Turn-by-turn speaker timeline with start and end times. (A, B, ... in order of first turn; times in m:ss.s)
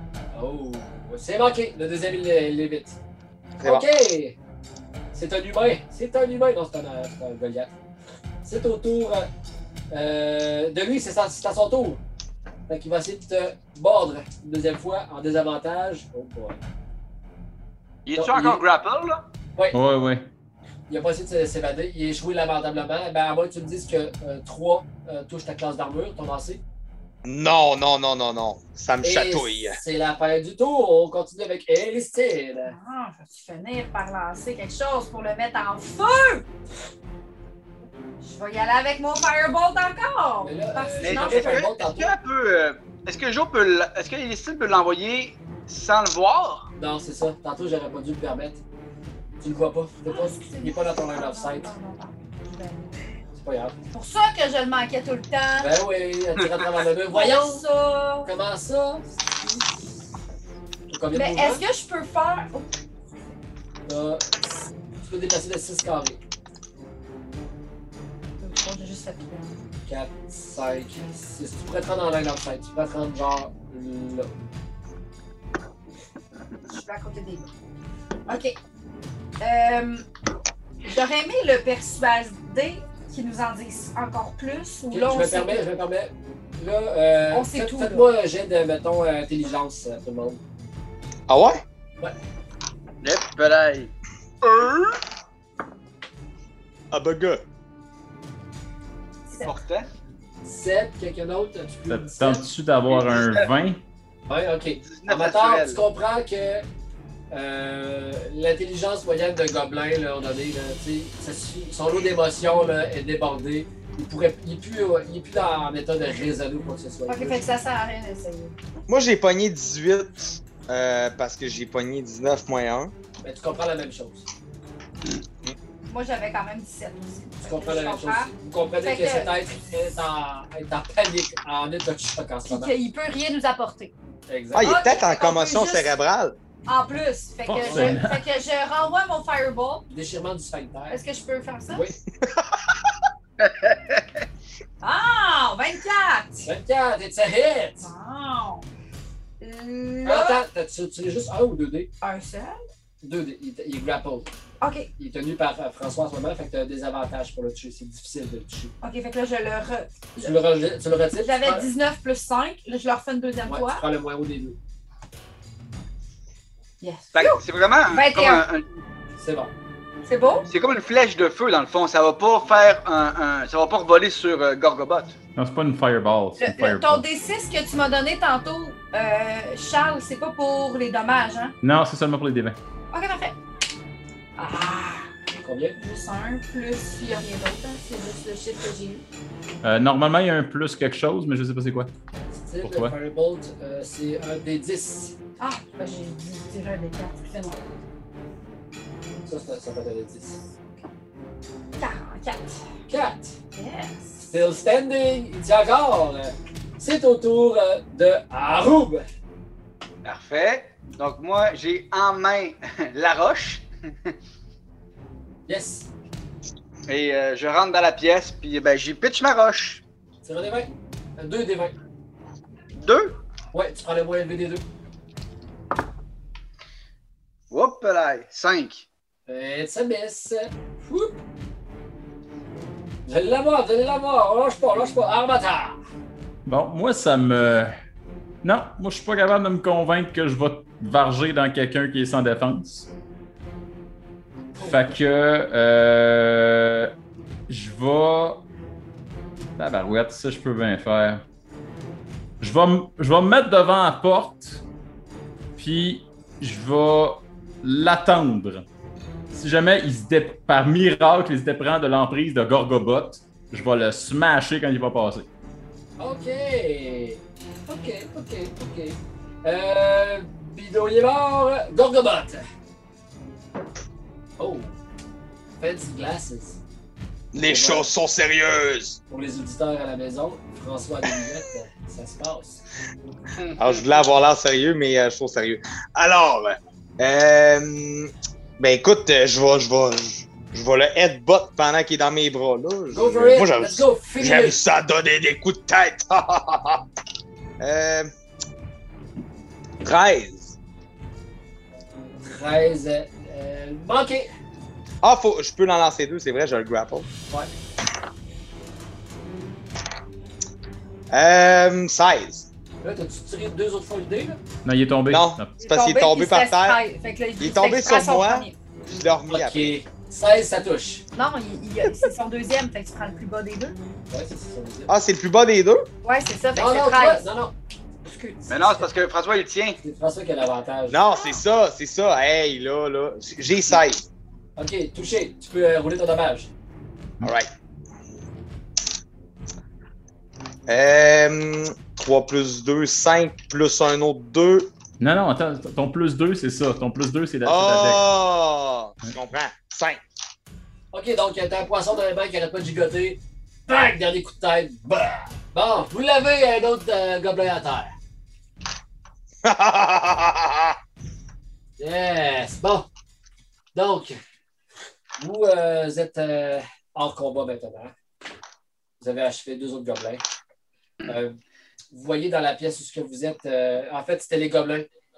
0:00.3-0:03.0 A
0:03.6-0:03.9 B
0:03.6-0:04.4 A
0:05.1-0:07.7 A
0:08.4-0:09.3 A
0:09.9-0:12.0 A
0:12.7-0:16.6 A
0:18.1-0:19.2 C
0:18.1-0:18.6 A
0:19.7-0:20.3 D
0:20.9-0:26.6 A
0:27.2-0:29.8 B
0:29.0-0:32.7 A
0:32.6-0:36.4 E
0:38.2-0:41.7 E
0:40.4-0:42.1 A
0:41.0-0:46.7 C
0:46.8-0:48.6 A
0:49.4-0:51.7 A
0:50.1-0:53.0 E
0:53.4-0:53.8 A
0:53.9-0:55.7 E
0:55.6-0:57.6 A
0:57.1-0:58.3 E
0:58.2-0:59.8 A
1:00.9-1:01.6 A
1:01.1-1:02.7 E
1:03.8-1:04.5 A
1:05.0-1:06.2 A
1:08.4-1:09.6 E
1:09.9-1:14.3 A
1:16.7-1:17.5 E
1:18.3-1:18.6 E
1:19.4-1:20.1 E
1:20.8-1:25.6 E
1:24.9-1:30.4 A
1:27.3-1:28.1 E
1:31.3-1:31.6 B
1:33.0-1:33.9 C
1:34.4-1:35.0 C
1:36.9-1:37.4 B
1:39.4-1:39.9 C
1:40.4-1:42.4 A
1:41.9-1:43.8 D
1:42.9-1:43.5 C
1:44.3-1:46.7 A
1:44.8-1:45.8 C
1:47.3-1:57.5 A
1:57.1-1:58.6 E
1:58.9-2:02.9 B
2:03.2-2:04.3 A
2:05.9-2:09.3 E
2:07.4-2:12.7 A
2:12.5-2:13.9 E
2:14.3-2:14.7 A
2:14.5-2:16.4 B
2:14.6-2:15.9 E
2:16.7-2:19.8 E
2:17.5-2:18.2 D
2:17.6-2:18.0 A
2:19.9-2:21.0 A
2:20.9-2:21.8 E
2:21.7-2:22.0 A
2:23.4-2:24.0 C
2:24.8-2:26.5 E
2:26.4-2:27.9 A
2:27.8-2:28.7 E
2:29.4-2:30.4 E
2:30.0-2:31.9 A
2:32.0-2:32.6 E
2:33.0-2:34.3 A
2:34.6-2:34.9 E
2:35.0-2:38.7 A
2:38.8-2:40.4 E
2:40.2-2:41.7 A
2:41.2-2:43.8 E
2:43.5-2:44.6 A
2:46.8-2:48.4 E
2:47.1-2:48.8 C
2:49.2-2:49.5 A
2:50.1-2:50.5 E
2:50.5-2:55.2 C
2:55.4-2:57.0 D
2:56.4-3:01.6 E
3:01.6-3:02.6 D
3:02.9-3:03.4 E
3:04.4-3:05.1 E
3:05.4-3:05.8 A
3:05.8-3:09.0 E
3:09.6-3:11.9 D
3:12.3-3:15.1 A
3:12.6-3:13.0 D
3:15.4-3:17.6 E
3:19.2-3:20.4 A
3:21.8-3:22.6 E
3:22.9-3:23.4 A
3:23.5-3:24.4 E
3:24.3-3:29.0 A
3:30.0-3:34.1 C
3:35.5-3:35.9 A
3:36.9-3:39.8 C
3:40.2-3:41.7 A
3:42.7-3:43.2 C
3:43.5-3:44.6 A
3:47.5-3:48.9 C
3:49.3-3:51.2 A
3:53.1-3:55.8 A
3:56.4-3:57.8 D
3:58.4-4:02.9 D
4:04.6-4:04.9 A
4:04.6-4:06.9 D
4:07.5-4:08.4 D
4:09.6-4:11.2 D
4:12.4-4:14.6 D
4:15.6-4:18.6 D
4:19.3-4:25.3 D
4:26.0-4:32.4 A
4:34.4-4:34.7 A
4:35.6-4:36.6 A
4:37.3-4:39.0 B
4:37.4-4:37.9 A
4:39.1-4:42.6 A
4:43.4-4:44.1 C
4:43.6-4:56.8 B
4:52.9-4:54.6 A
4:57.6-4:58.1 B
4:59.8-5:00.6 B
5:02.2-5:04.3 A
5:05.0-5:07.1 B
5:11.1-5:12.5 B
5:12.8-5:14.4 A
5:14.6-5:15.5 D
5:15.1-5:16.8 B
5:15.6-5:18.6 E
5:17.4-5:19.8 B
5:19.3-5:21.0 A
5:21.1-5:23.8 E
5:24.1-5:24.9 A
5:24.9-5:25.9 B
5:26.0-5:27.3 E
5:26.5-5:27.5 A
5:28.0-5:28.9 E
5:28.5-5:29.8 C
5:29.8-5:31.0 A
5:30.9-5:34.0 B
5:34.6-5:36.5 A
5:37.2-5:37.5 B
5:40.7-5:44.7 B
5:45.0-5:48.0 D
5:47.4-5:50.0 B
5:50.9-5:57.9 A
5:59.4-6:00.8 B
6:01.8-6:02.9 A
6:03.7-6:04.2 A
6:05.2-6:07.9 A
6:09.0-6:10.2 A
6:11.1-6:11.4 A
6:11.9-6:14.9 A